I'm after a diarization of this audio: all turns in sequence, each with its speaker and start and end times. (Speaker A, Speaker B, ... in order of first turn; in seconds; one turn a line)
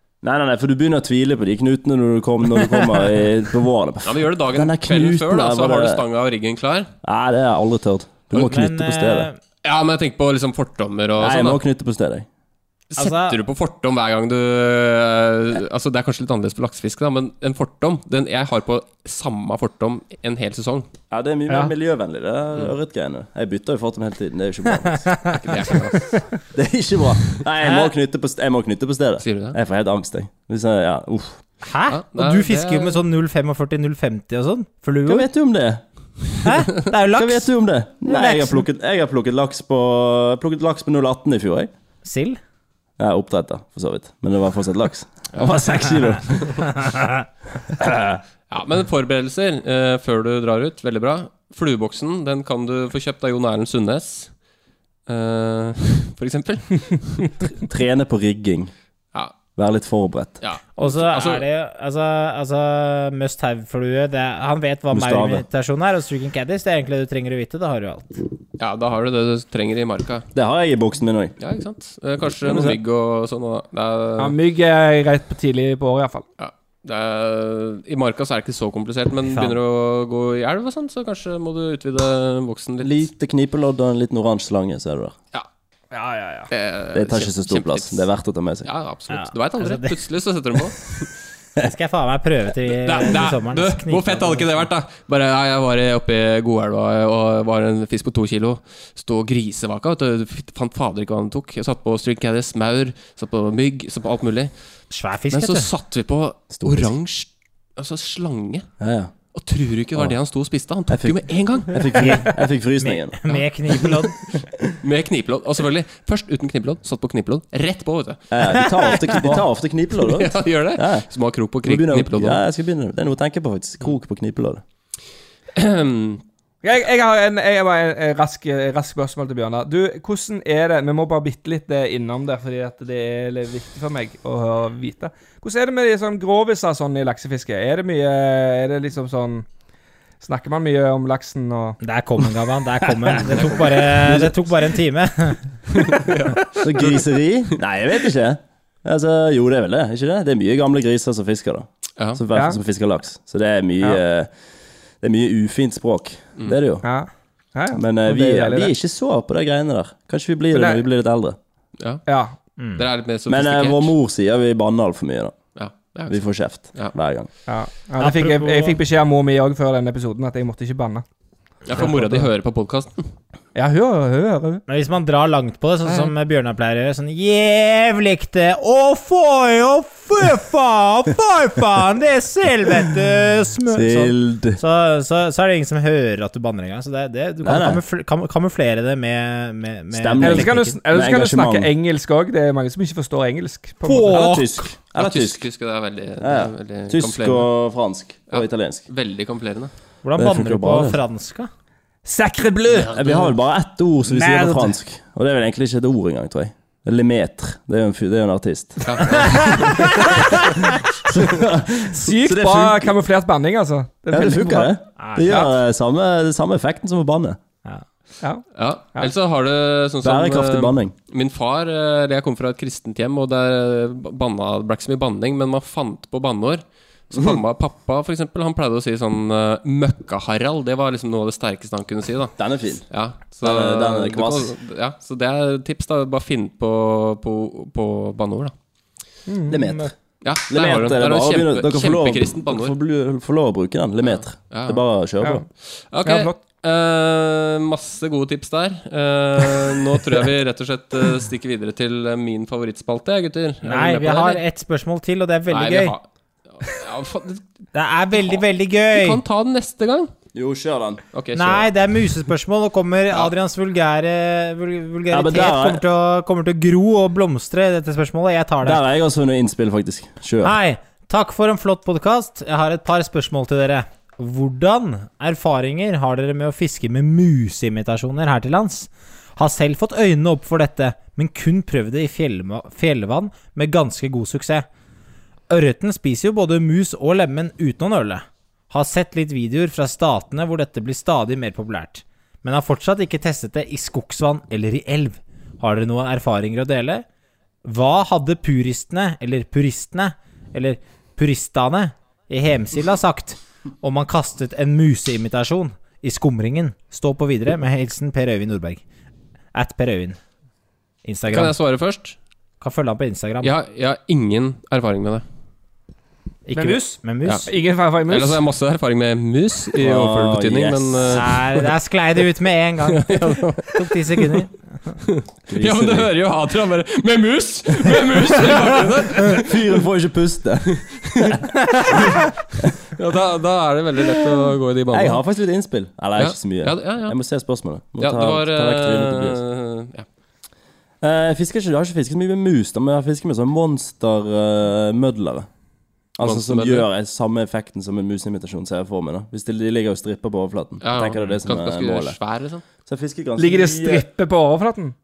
Speaker A: 0.2-6.0
Speaker B: 2.5-3.1
Speaker C: 4.0-6.9
Speaker A: 7.0-9.3
Speaker B: 8.3-9.4
Speaker C: 9.6-11.6
Speaker A: 11.2-12.2
Speaker C: 12.9-20.9
Speaker B: 13.0-13.4
Speaker A: 21.1-25.7
Speaker B: 25.1-25.4
Speaker C: 25.4-26.2
Speaker A: 26.5-31.4
Speaker B: 27.6-27.9
Speaker C: 29.2-29.6
Speaker B: 31.6-35.3
Speaker C: 31.9-33.0
Speaker A: 35.1-35.8
Speaker B: 36.4-38.6
Speaker A: 37.1-41.7
Speaker B: 42.0-42.4
Speaker A: 43.0-46.9
Speaker A: 47.6-48.2
Speaker C: 48.5-54.3
Speaker C: 55.1-57.3
Speaker A: 57.5-58.7
Speaker A: 59.5-60.4
Speaker C: 60.4-61.5
Speaker B: 60.8-68.2
Speaker A: 64.9-65.4
Speaker C: 68.6-70.3
Speaker A: 70.3-71.3
Speaker C: 71.4-74.3
Speaker A: 72.4-72.8
Speaker D: 74.2-76.2
Speaker C: 76.4-83.1
Speaker B: 79.2-79.6
Speaker A: 82.8-85.1
Speaker D: 85.9-86.5
Speaker C: 86.5-88.1
Speaker A: 86.9-88.7
Speaker C: 88.6-91.1
Speaker B: 89.1-90.0
Speaker B: 91.6-94.7
Speaker C: 92.8-104.5
Speaker B: 104.9-105.7
Speaker C: 105.3-108.7
Speaker A: 106.5-106.9
Speaker A: 108.8-109.1
Speaker C: 109.3-111.7
Speaker A: 110.9-114.5
Speaker B: 112.0-114.2
Speaker C: 114.8-118.2
Speaker A: 118.3-121.1
Speaker B: 118.5-119.2
Speaker C: 119.9-122.4
Speaker A: 121.6-124.6
Speaker C: 125.5-126.2
Speaker D: 126.6-139.4
Speaker D: 140.2-141.8
Speaker B: 141.8-145.5
Speaker C: 143.3-143.9
Speaker A: 144.0-144.3
Speaker C: 145.7-147.0
Speaker A: 146.6-154.3
Speaker D: 152.3-152.6
Speaker A: 155.0-156.8
Speaker D: 156.8-158.7
Speaker A: 157.7-161.4
Speaker D: 160.5-160.8
Speaker C: 161.8-162.0
Speaker D: 162.1-162.3
Speaker B: 162.6-162.8
Speaker C: 162.7-163.9
Speaker A: 163.3-165.3
Speaker C: 165.6-166.9
Speaker A: 166.1-167.3
Speaker D: 167.5-171.0
Speaker B: 168.0-168.8
Speaker C: 171.6-173.1
Speaker D: 171.8-172.3
Speaker D: 173.5-174.6
Speaker B: 174.7-190.8
Speaker A: 183.7-184.6
Speaker A: 187.4-187.8
Speaker A: 189.9-191.7
Speaker D: 190.2-194.3
Speaker B: 193.8-194.7
Speaker A: 194.1-195.4
Speaker C: 194.9-197.5
Speaker A: 196.2-198.8
Speaker C: 198.3-199.7
Speaker B: 200.0-201.5
Speaker A: 200.2-201.0
Speaker D: 202.0-203.3
Speaker A: 202.8-209.6
Speaker D: 204.1-204.7
Speaker C: 208.8-209.8
Speaker B: 209.2-210.2
Speaker A: 211.1-212.9
Speaker D: 211.9-215.5
Speaker A: 214.1-217.4
Speaker B: 215.0-215.4
Speaker C: 218.5-232.3
Speaker A: 220.0-220.9
Speaker A: 227.1-227.4
Speaker A: 232.4-232.8
Speaker C: 232.9-238.5
Speaker A: 233.4-234.5
Speaker D: 239.3-239.8
Speaker A: 239.5-239.9
Speaker C: 240.2-242.7
Speaker A: 240.5-245.4
Speaker C: 244.0-244.8
Speaker C: 245.6-254.4
Speaker D: 246.0-246.4
Speaker B: 253.6-255.9
Speaker C: 255.5-257.4
Speaker B: 257.7-259.2
Speaker C: 258.9-260.1
Speaker A: 260.3-261.0
Speaker C: 261.1-261.7
Speaker B: 261.3-268.8
Speaker A: 265.1-265.8
Speaker A: 268.6-270.5
Speaker B: 270.4-284.7
Speaker B: 285.5-297.0
Speaker B: 297.6-308.8
Speaker B: 309.5-310.2
Speaker B: 311.0-311.6
Speaker C: 311.3-312.1
Speaker B: 312.6-313.5
Speaker C: 313.4-315.2
Speaker B: 316.4-317.5
Speaker D: 316.6-318.4
Speaker C: 318.1-321.3
Speaker A: 319.8-321.2
Speaker B: 321.1-324.9
Speaker C: 322.9-324.4
Speaker C: 325.1-329.6
Speaker A: 325.5-326.1
Speaker A: 327.9-328.7
Speaker A: 329.2-331.4
Speaker C: 331.0-331.3
Speaker C: 332.9-335.2
Speaker A: 334.9-339.4
Speaker C: 336.2-337.1
Speaker C: 338.0-340.1
Speaker A: 341.0-345.5
Speaker A: 346.2-352.2
Speaker C: 346.2-346.9
Speaker C: 350.8-352.6
Speaker A: 352.8-354.1
Speaker D: 353.4-354.9